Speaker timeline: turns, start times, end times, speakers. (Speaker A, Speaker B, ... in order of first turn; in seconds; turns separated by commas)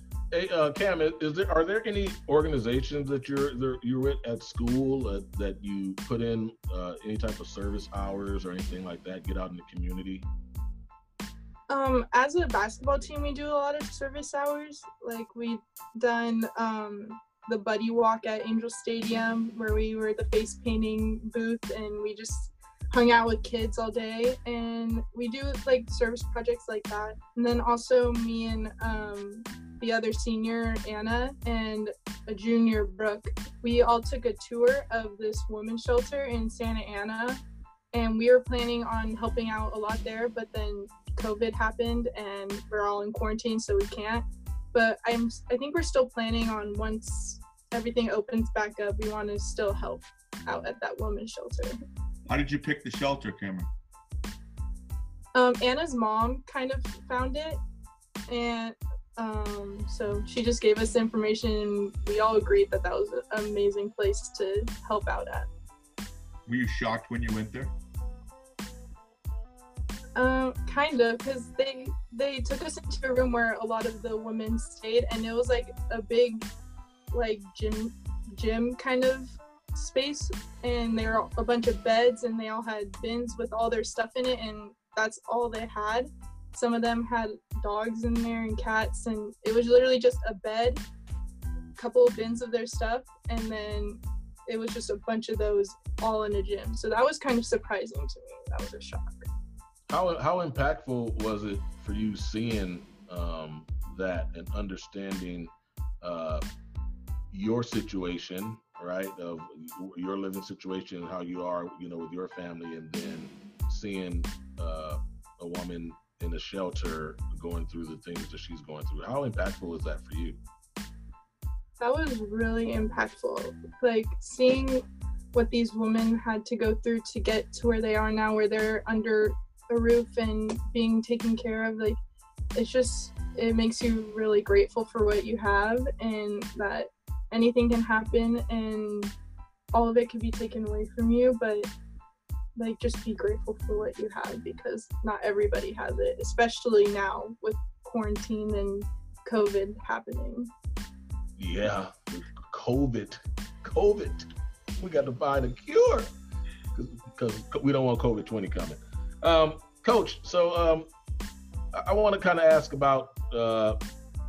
Speaker A: 0.3-10.2, Speaker B: 11.7-37.4, Speaker B: 37.9-51.8, Speaker C: 52.3-53.7, Speaker B: 55.3-57.6, Speaker B: 58.3-65.5, Speaker C: 66.5-67.7, Speaker B: 70.2-76.4, Speaker B: 77.1-90.8, Speaker B: 91.8-99.3, Speaker A: 99.9-105.5, Speaker A: 106.0-106.4, Speaker A: 107.3-120.4, Speaker B: 121.8-124.8, Speaker B: 125.3-132.0, Speaker B: 132.5-139.1, Speaker B: 139.7-141.7, Speaker B: 142.6-150.5, Speaker A: 151.4-156.1, Speaker A: 156.7-160.9, Speaker A: 161.7-163.8